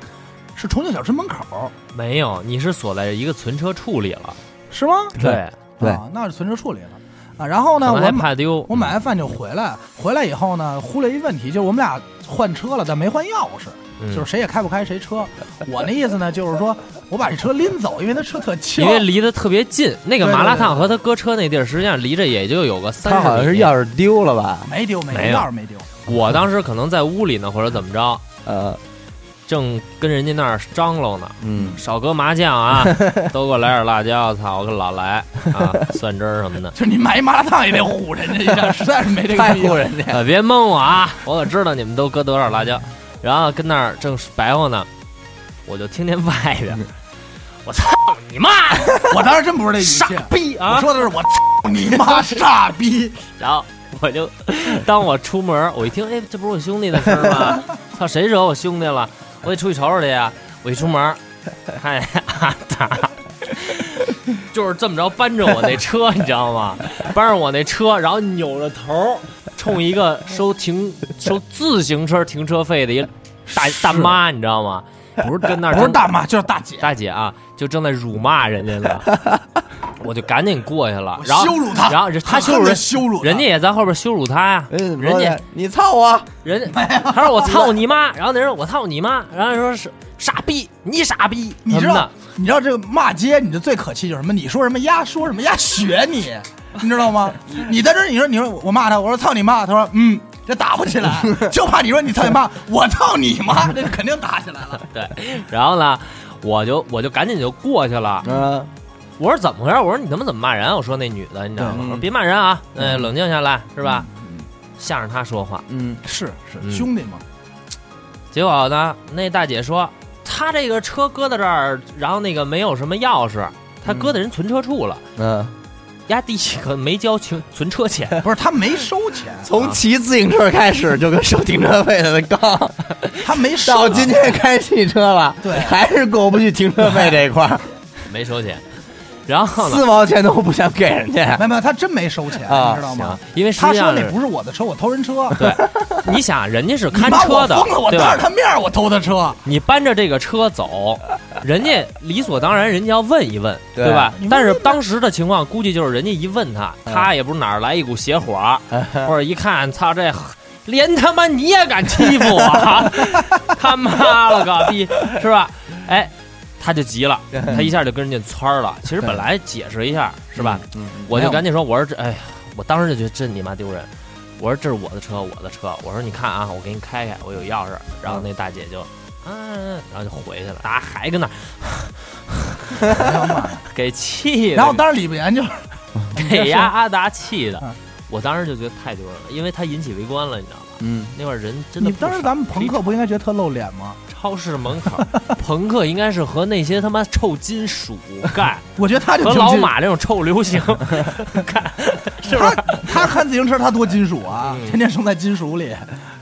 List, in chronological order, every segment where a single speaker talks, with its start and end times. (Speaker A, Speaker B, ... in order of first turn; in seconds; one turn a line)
Speaker A: 0.6-1.7
Speaker B: 1.9-4.4
Speaker A: 4.7-5.2
Speaker B: 5.2-5.5
Speaker C: 5.2-6.0
Speaker A: 5.8-19.1
Speaker B: 7.8-8.9
Speaker B: 14.0-14.3
Speaker B: 18.8-23.7
Speaker A: 20.2-20.9
Speaker C: 23.0-24.7
Speaker A: 24.7-25.9
Speaker B: 25.1-25.5
Speaker B: 26.1-28.2
Speaker C: 28.4-28.8
Speaker B: 29.5-36.7
Speaker C: 31.4-31.8
Speaker C: 32.8-33.2
Speaker A: 36.7-39.9
Speaker C: 39.3-40.2
Speaker B: 40.1-44.9
Speaker B: 45.7-46.9
Speaker B: 47.6-49.1
Speaker A: 49.0-53.2
Speaker B: 49.8-50.9
Speaker B: 53.4-61.2
Speaker B: 61.7-76.1
Speaker A: 73.5-74.2
Speaker A: 75.2-76.9
Speaker B: 76.8-79.1
Speaker B: 80.0-85.4
Speaker A: 81.2-83.5
Speaker C: 84.7-86.3
Speaker B: 86.4-92.1
Speaker A: 86.7-87.8
Speaker A: 91.7-104.9
Speaker C: 101.2-101.5
Speaker B: 104.9-108.3
Speaker C: 108.2-108.7
Speaker B: 109.2-114.1
Speaker C: 111.6-112.1
Speaker A: 113.8-114.5
Speaker B: 114.8-115.7
Speaker C: 115.7-116.0
Speaker A: 116.0-117.2
Speaker B: 116.6-116.9
Speaker B: 118.3-125.0
Speaker C: 123.9-124.2
Speaker C: 125.2-125.5
Speaker B: 126.1-128.2
Speaker A: 128.2-129.5
Speaker C: 129.4-132.8
Speaker A: 133.2-134.3
Speaker C: 133.6-137.7
Speaker A: 135.4-135.8
Speaker A: 136.8-137.2
Speaker B: 138.1-138.6
Speaker B: 139.3-139.9
Speaker C: 139.6-141.5
Speaker A: 141.4-145.4
Speaker C: 142.4-142.9
Speaker B: 142.9-144.2
Speaker B: 145.4-148.2
Speaker A: 146.9-149.4
Speaker B: 149.4-183.0
Speaker C: 153.8-154.2
Speaker A: 154.2-154.8
Speaker C: 158.7-159.1
Speaker C: 167.3-167.7
Speaker C: 170.4-171.3
Speaker A: 182.9-183.7
Speaker B: 183.7-184.8
Speaker A: 184.5-186.7
Speaker B: 186.1-192.8
Speaker C: 190.8-191.2
Speaker A: 191.8-194.0
Speaker B: 194.1-198.6
Speaker A: 198.8-199.7
Speaker B: 199.2-203.1
Speaker A: 202.2-206.0
Speaker B: 204.5-204.8